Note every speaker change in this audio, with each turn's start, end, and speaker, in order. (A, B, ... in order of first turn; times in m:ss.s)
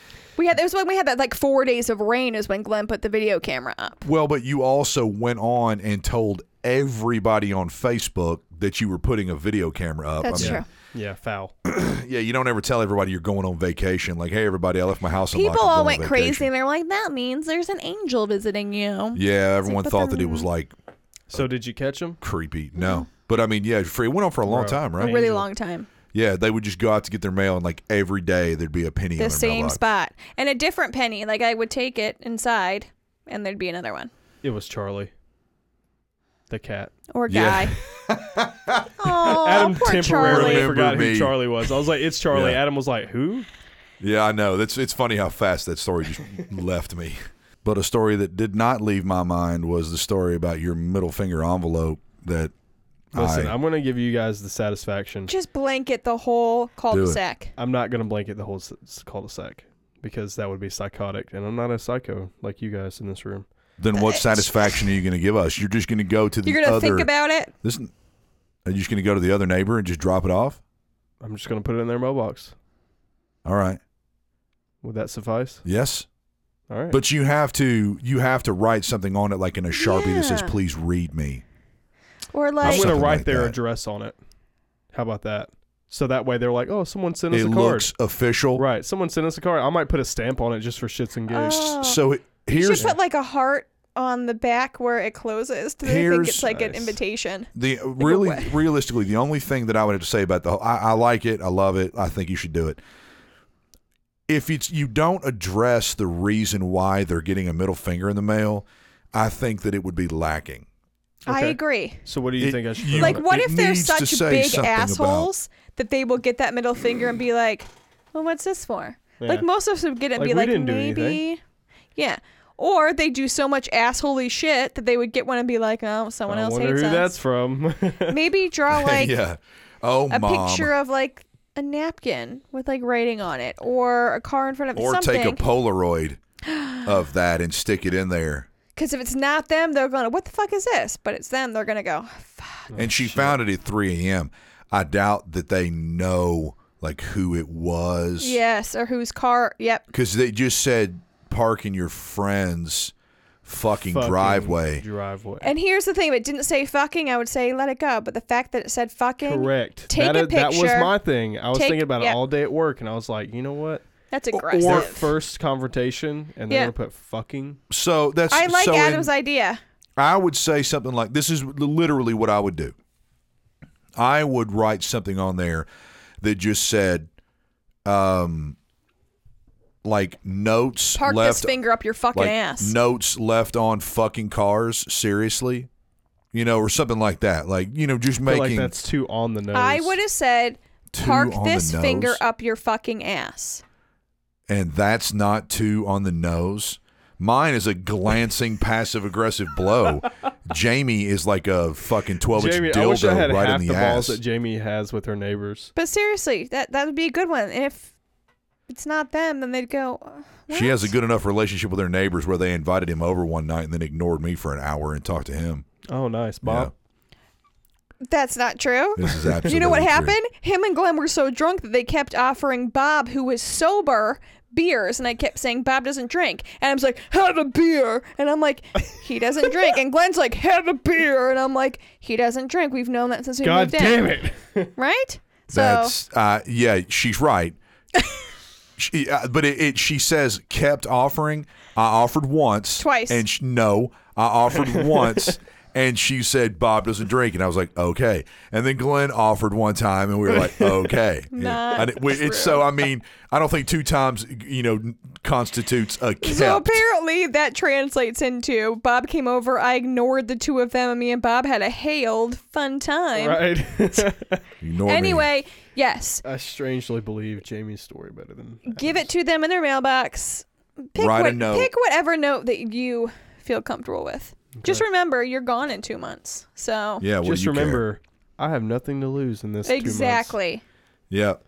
0:00.4-0:04.0 A
0:04.0-0:10.6 B
0:10.2-0:10.6 A
0:10.4-0:11.5 C
0:11.6-0:16.5 B
0:15.3-0:20.5 A
0:19.1-0:20.7 B
0:21.3-0:22.2 C
0:22.2-0:25.4 B
0:22.8-0:23.0 A
0:24.5-0:24.8 C
0:25.0-0:25.9 A
0:26.1-0:29.8 B
0:29.2-0:34.1 A
0:34.4-0:35.1 C
0:36.5-0:36.9 C
0:37.1-0:37.7 A
0:37.3-0:39.4 B
0:39.0-0:40.7 A
0:39.3-0:43.5 C
0:40.1-0:41.4 B
0:42.3-0:42.6 B
0:44.0-0:52.5 B
0:53.1-0:53.5 B
0:53.1-0:55.3 C
0:55.3-0:57.5 A
0:56.9-0:57.2 B
0:57.6-1:03.4 C
1:03.8-1:07.9 B
1:03.9-1:04.9 A
1:06.4-1:07.5 A
1:08.6-1:10.6 B
1:11.2-1:12.5 C
1:13.4-1:13.8 B
1:14.8-1:15.6 C
1:15.6-1:16.0 B
1:16.7-1:17.0 C
1:16.9-1:21.4 B
1:19.7-1:20.5 A
1:22.3-1:22.9 A
1:22.6-1:23.6 B
1:22.6-1:24.2 C
1:24.9-1:27.9 C
1:27.3-1:28.6 B
1:28.6-1:31.8 C
1:31.3-1:38.6 A
1:31.8-1:32.9 B
1:35.8-1:36.5 B
1:36.4-1:37.0 C
1:37.5-1:42.8 B
1:44.3-1:50.7 B
1:51.2-1:53.2 C
1:51.3-1:52.0 A
1:52.4-1:55.3 B
1:53.0-2:01.4 A
1:59.2-1:59.4 C
2:00.2-2:01.2 C
2:02.0-2:07.1 A
2:06.3-2:08.2 C
2:08.1-2:09.2 A
2:08.7-2:10.7 B
2:10.1-2:15.4 A
2:14.7-2:16.2 B
2:16.5-2:16.8 A
2:16.8-2:18.5 B
2:18.7-2:22.7 A
2:22.7-2:23.4 C
2:22.8-2:28.4 B
2:28.2-2:29.9 A
2:29.9-2:32.9 B
2:33.4-2:34.8 B
2:33.8-2:35.5 C
2:35.4-2:40.9 A
2:39.2-2:43.8 C
2:41.5-2:42.2 A
2:44.1-2:45.1 A
2:44.3-2:44.9 B
2:44.6-2:47.6 C
2:47.7-2:49.1 B
2:48.3-2:49.6 A
2:50.0-2:52.7 B
2:54.0-2:55.7 B
2:56.2-2:57.1 B
2:57.8-2:58.6 B
2:59.8-3:01.6 B
3:01.0-3:02.7 A
3:02.1-3:05.7 B
3:06.3-3:08.7 B
3:08.2-3:10.0 C
3:09.5-3:13.6 A
3:10.9-3:12.2 B
3:14.5-3:24.2 B
3:22.3-3:25.7 C
3:25.8-3:27.9 A
3:28.7-3:30.9 A
3:30.5-3:35.6 B
3:35.9-3:36.7 C
3:36.4-3:36.7 B
3:38.0-3:54.1 A
3:39.0-3:40.2 B
3:53.4-3:54.7 C
3:54.8-3:55.9 A
3:55.5-3:57.6 B
3:58.8-4:16.8 B
4:02.8-4:03.2 A
4:04.8-4:05.1 C
4:10.4-4:10.7 C
4:11.3-4:12.6 A
4:16.2-4:23.4 A
4:23.1-4:24.4 C
4:24.6-4:25.3 B
4:24.8-4:26.2 A
4:26.2-4:29.0 C
4:28.6-4:37.0 A
4:31.0-4:31.7 B
4:34.6-4:34.8 C
4:37.0-4:37.8 B
4:37.2-4:40.3 C
4:39.6-4:40.6 A
4:41.1-4:41.4 B